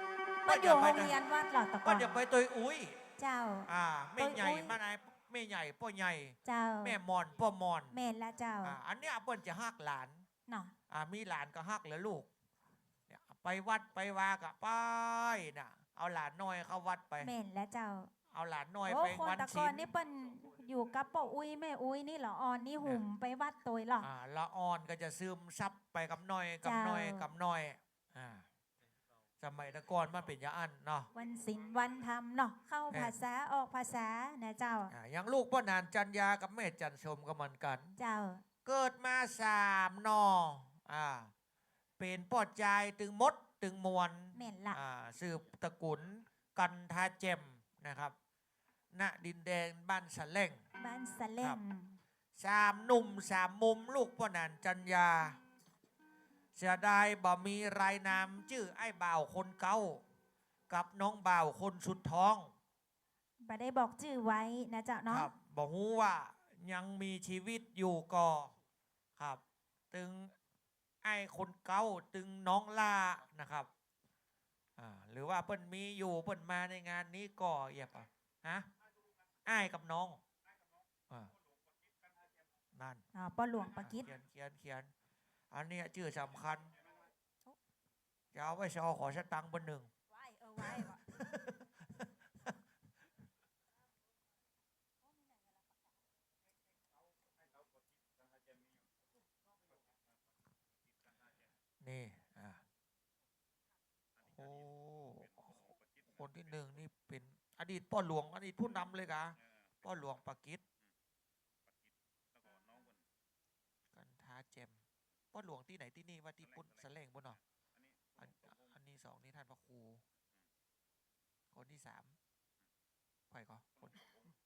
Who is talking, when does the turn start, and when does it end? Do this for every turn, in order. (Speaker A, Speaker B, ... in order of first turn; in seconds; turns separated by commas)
Speaker A: 0.5-1.1, Speaker B: 0.5-2.1, Speaker A: 1.9-3.0, Speaker B: 3.2-4.7, Speaker A: 3.7-7.9, Speaker B: 6.5-7.0, Speaker B: 7.9-8.8, Speaker A: 8.6-10.2, Speaker B: 10.5-10.8, Speaker A: 10.9-12.3, Speaker A: 13.1-17.3, Speaker B: 17.2-18.1, Speaker A: 18.3-19.9, Speaker B: 18.9-24.1, Speaker A: 24.0-28.4, Speaker B: 26.6-27.3, Speaker A: 29.4-31.1, Speaker B: 31.1-34.9, Speaker A: 34.9-37.9, Speaker B: 38.0-38.4, Speaker A: 38.6-41.3, Speaker A: 42.0-48.1, Speaker B: 44.4-44.8, Speaker A: 48.9-50.6, Speaker B: 50.8-52.0, Speaker A: 52.4-55.4, Speaker A: 56.6-60.0, Speaker A: 60.7-62.5, Speaker B: 63.4-65.3, Speaker A: 65.1-68.5, Speaker A: 69.9-70.3, Speaker A: 71.0-73.7, Speaker A: 74.8-78.7, Speaker A: 79.5-80.2, Speaker A: 82.7-83.0, Speaker B: 83.1-84.1, Speaker A: 83.8-84.9, Speaker A: 85.5-86.7, Speaker A: 88.3-89.9, Speaker B: 90.1-91.1, Speaker A: 90.6-92.5, Speaker A: 101.8-102.6, Speaker A: 104.3-110.6, Speaker A: 113.9-114.8, Speaker A: 115.3-117.4, Speaker A: 118.2-120.0, Speaker A: 121.5-122.2, Speaker A: 123.3-124.1